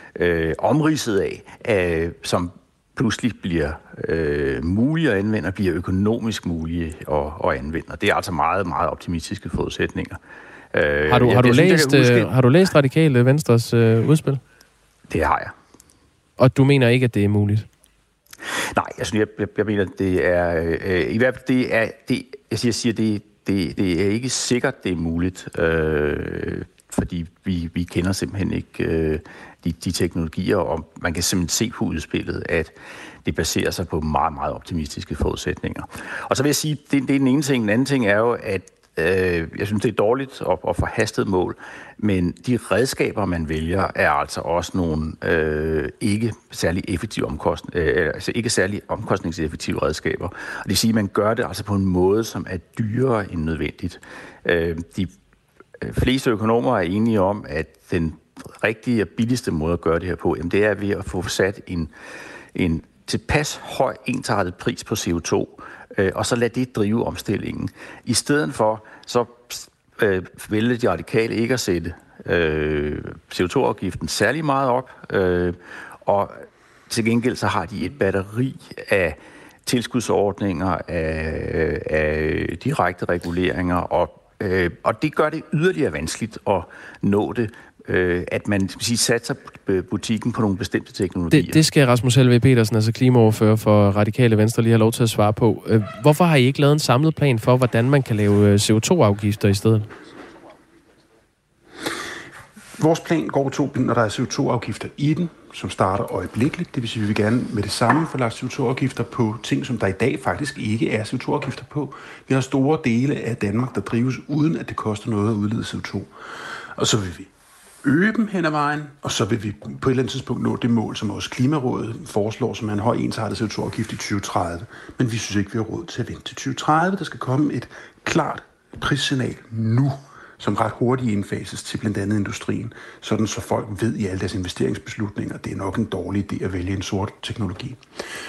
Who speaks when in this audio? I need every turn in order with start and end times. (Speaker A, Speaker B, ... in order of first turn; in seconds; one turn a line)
Speaker A: 0.1-10.2
Speaker A: 10.7-12.3
Speaker B: 11.1-14.4
Speaker A: 15.1-15.5
Speaker B: 16.4-17.7
Speaker A: 18.6-55.1
Speaker A: 55.8-61.9
Speaker A: 62.5-91.6
Speaker B: 91.3-99.9
Speaker C: 102.8-116.1
Speaker C: 116.8-117.3
Speaker C: 117.8-137.8